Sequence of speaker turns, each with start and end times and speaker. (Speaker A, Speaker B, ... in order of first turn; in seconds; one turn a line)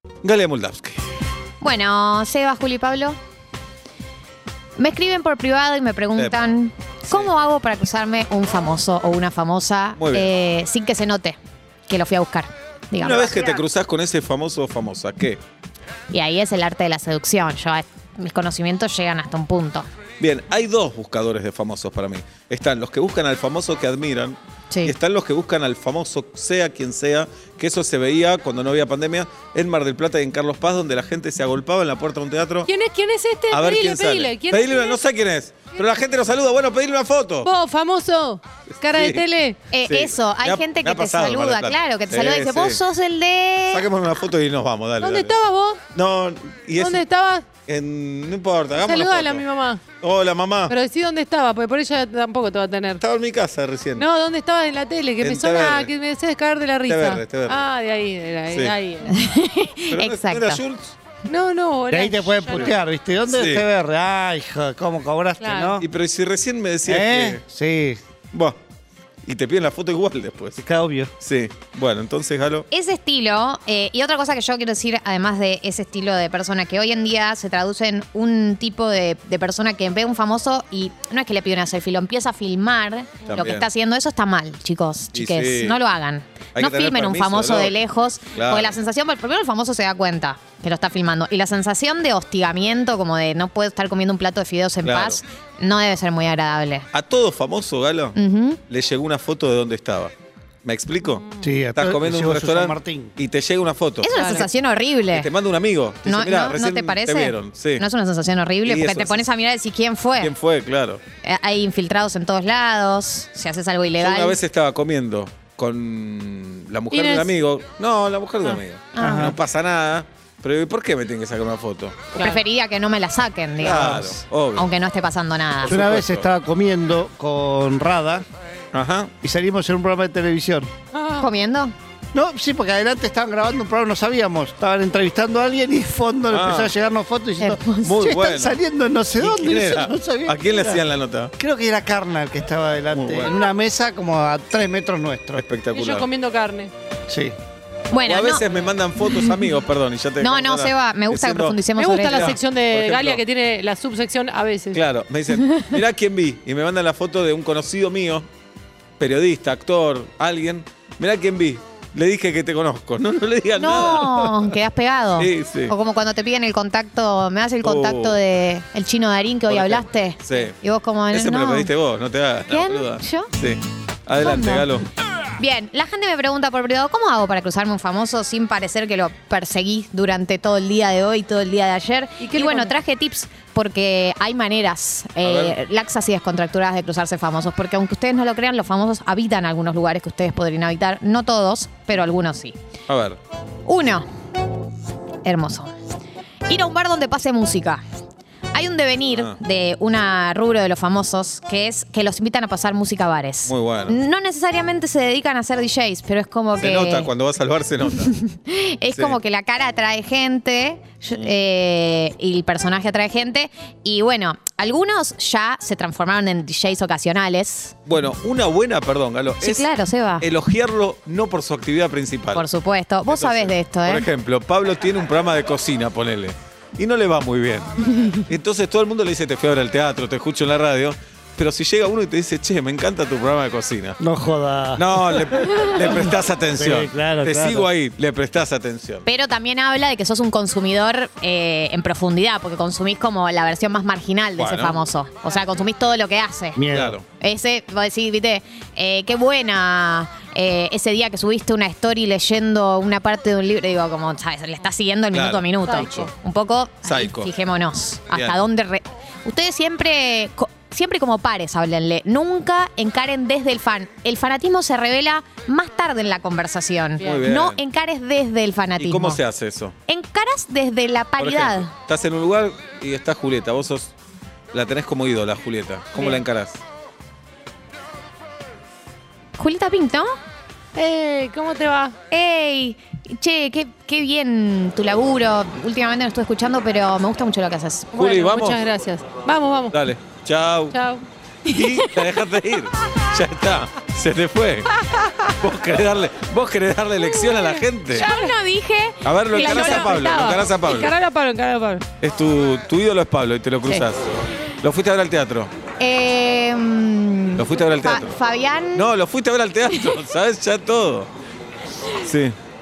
Speaker A: 0.2-1.0
Speaker B: 1.6-3.2
Speaker B: 4.8-11.4
Speaker A: 6.2-6.4
Speaker A: 10.0-10.3
Speaker B: 11.9-13.6
Speaker A: 12.9-15.4
Speaker B: 16.1-19.9
Speaker A: 20.2-32.7
Speaker C: 32.7-35.0
Speaker A: 33.5-37.5
Speaker C: 37.4-39.6
Speaker A: 38.8-39.2
Speaker B: 39.7-43.9
Speaker A: 39.8-42.8
Speaker A: 43.7-45.4
Speaker C: 45.0-45.8
Speaker A: 45.9-47.0
Speaker C: 46.8-47.5
Speaker A: 47.7-49.4
Speaker C: 48.8-49.8
Speaker A: 50.0-50.7
Speaker C: 50.7-53.0
Speaker A: 53.0-54.1
Speaker C: 54.0-59.2
Speaker A: 55.2-55.9
Speaker A: 56.9-57.6
Speaker B: 59.1-60.6
Speaker A: 59.9-60.9
Speaker C: 61.2-62.7
Speaker D: 61.9-65.8
Speaker A: 63.3-63.7
Speaker C: 65.4-65.8
Speaker A: 65.8-67.4
Speaker D: 66.9-68.0
Speaker A: 68.3-68.6
Speaker A: 69.2-70.6
Speaker D: 70.6-71.1
Speaker A: 71.2-72.7
Speaker B: 72.7-96.9
Speaker A: 83.2-83.7
Speaker A: 85.1-85.8
Speaker A: 86.5-87.8
Speaker A: 88.3-88.8
Speaker A: 94.8-95.2
Speaker A: 96.9-98.2
Speaker B: 98.1-98.6
Speaker A: 98.7-100.1
Speaker A: 100.6-101.2
Speaker C: 101.0-101.4
Speaker D: 101.4-103.2
Speaker A: 101.8-104.4
Speaker B: 104.0-105.3
Speaker C: 104.1-104.5
Speaker A: 105.1-107.9
Speaker B: 106.0-110.3
Speaker A: 108.6-109.2
Speaker A: 110.2-111.0
Speaker B: 111.2-114.4
Speaker A: 114.0-122.1
Speaker C: 116.9-117.3
Speaker B: 118.9-119.3
Speaker D: 119.0-119.4
Speaker B: 122.1-125.8
Speaker A: 123.6-124.7
Speaker A: 125.6-126.3
Speaker D: 125.7-128.3
Speaker A: 128.7-129.1
Speaker D: 129.2-130.7
Speaker C: 130.9-131.3
Speaker B: 131.2-131.8
Speaker D: 132.1-140.8
Speaker A: 136.3-136.7
Speaker B: 137.4-137.9
Speaker A: 137.8-138.6
Speaker A: 139.2-141.3
Speaker D: 141.4-145.4
Speaker A: 142.9-143.3
Speaker A: 145.4-146.1
Speaker C: 145.7-146.7
Speaker D: 147.1-147.3
Speaker B: 147.9-148.5
Speaker A: 148.1-153.2
Speaker B: 149.0-149.4
Speaker B: 150.2-152.3
Speaker C: 151.8-154.8
Speaker A: 154.7-158.3
Speaker A: 159.0-164.6
Speaker B: 163.5-171.7
Speaker A: 165.2-165.8
Speaker A: 167.6-168.2
Speaker A: 169.5-170.6
Speaker A: 171.1-174.9
Speaker B: 172.5-173.3
Speaker B: 174.2-174.7
Speaker B: 175.4-192.6
Speaker C: 182.2-182.8
Speaker A: 185.2-185.6
Speaker A: 192.9-193.2
Speaker B: 193.7-194.1
Speaker B: 195.2-195.7
Speaker B: 196.5-197.8
Speaker B: 198.5-207.1
Speaker A: 199.1-199.4
Speaker A: 203.5-204.0
Speaker A: 206.6-208.1
Speaker B: 207.9-217.8
Speaker A: 208.9-209.2
Speaker A: 217.8-219.7
Speaker B: 219.4-220.3
Speaker A: 220.2-222.5
Speaker B: 222.3-224.1
Speaker A: 223.1-234.0
Speaker D: 234.0-235.7
Speaker A: 234.8-239.1
Speaker D: 236.6-237.7
Speaker B: 239.1-269.2
Speaker A: 244.4-244.8
Speaker D: 246.6-247.0
Speaker A: 246.7-247.1
Speaker A: 255.1-256.1
Speaker C: 255.7-256.1
Speaker A: 256.8-257.3
Speaker A: 258.1-258.4
Speaker C: 267.0-267.3
Speaker A: 267.0-267.6
Speaker A: 268.8-269.8
Speaker B: 269.9-271.7
Speaker A: 271.2-273.9
Speaker A: 274.5-276.6
Speaker C: 275.9-276.2
Speaker B: 279.4-280.1
Speaker C: 280.8-282.0
Speaker B: 282.1-288.0
Speaker C: 287.9-289.8
Speaker A: 287.9-288.6
Speaker A: 289.7-290.8
Speaker C: 290.7-291.1
Speaker A: 291.4-294.7
Speaker B: 291.5-292.0
Speaker A: 295.4-298.1
Speaker C: 297.1-298.3
Speaker B: 297.9-300.0
Speaker A: 299.0-300.9
Speaker C: 299.3-301.9
Speaker A: 302.0-304.1
Speaker A: 304.6-305.5
Speaker B: 305.8-308.9
Speaker A: 307.4-308.2
Speaker A: 308.7-311.1
Speaker B: 309.7-310.1
Speaker A: 312.0-312.4